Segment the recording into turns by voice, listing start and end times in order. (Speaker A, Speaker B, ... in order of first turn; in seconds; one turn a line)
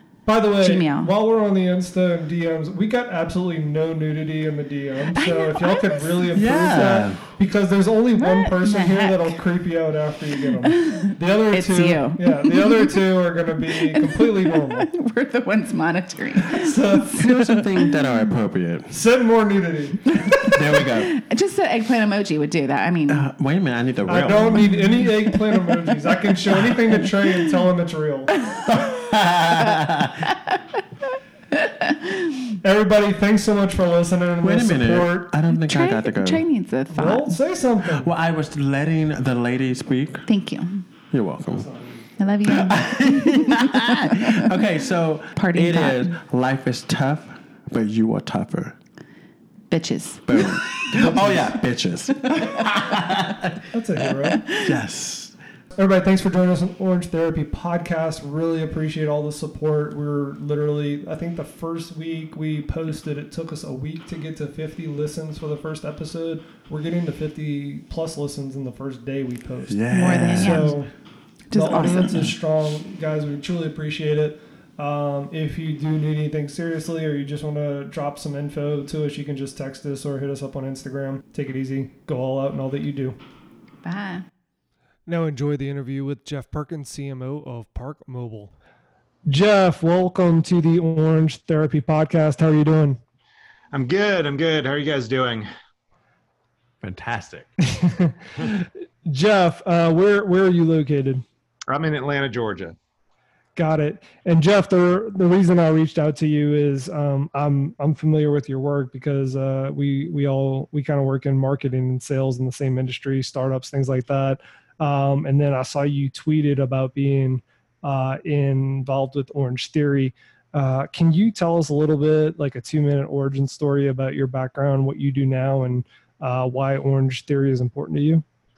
Speaker A: 0.3-14.9
Speaker B: 0.6-1.1
Speaker B: 5.1-6.3
Speaker C: 6.3-7.3
Speaker B: 8.2-9.3
Speaker B: 10.7-13.0
Speaker B: 13.7-17.0
Speaker A: 16.5-17.5
Speaker C: 17.1-19.0
Speaker A: 18.9-20.5
Speaker B: 20.3-23.3
Speaker C: 20.4-21.1
Speaker C: 23.1-24.7
Speaker A: 24.1-28.3
Speaker B: 24.6-25.6
Speaker C: 28.7-30.2
Speaker B: 29.6-30.6
Speaker B: 31.5-32.4
Speaker A: 32.6-35.3
Speaker C: 34.4-36.4
Speaker B: 35.5-37.4
Speaker A: 36.9-38.1
Speaker C: 37.9-40.3
Speaker B: 40.3-40.9
Speaker C: 41.1-41.7
Speaker A: 41.5-42.1
Speaker B: 42.2-44.5
Speaker C: 42.5-48.8
Speaker B: 45.4-46.2
Speaker B: 49.7-50.6
Speaker C: 50.3-53.6
Speaker A: 50.9-51.5
Speaker A: 53.7-54.4
Speaker B: 54.4-54.7
Speaker C: 54.6-55.4
Speaker A: 55.8-70.9
Speaker C: 69.7-70.7
Speaker B: 69.9-70.8
Speaker B: 71.5-72.3
Speaker A: 71.5-83.2
Speaker B: 83.8-84.3
Speaker A: 85.1-88.5
Speaker A: 89.3-93.0
Speaker D: 93.7-95.5
Speaker C: 96.8-97.5
Speaker A: 97.6-101.2
Speaker D: 101.7-102.8
Speaker A: 103.6-128.2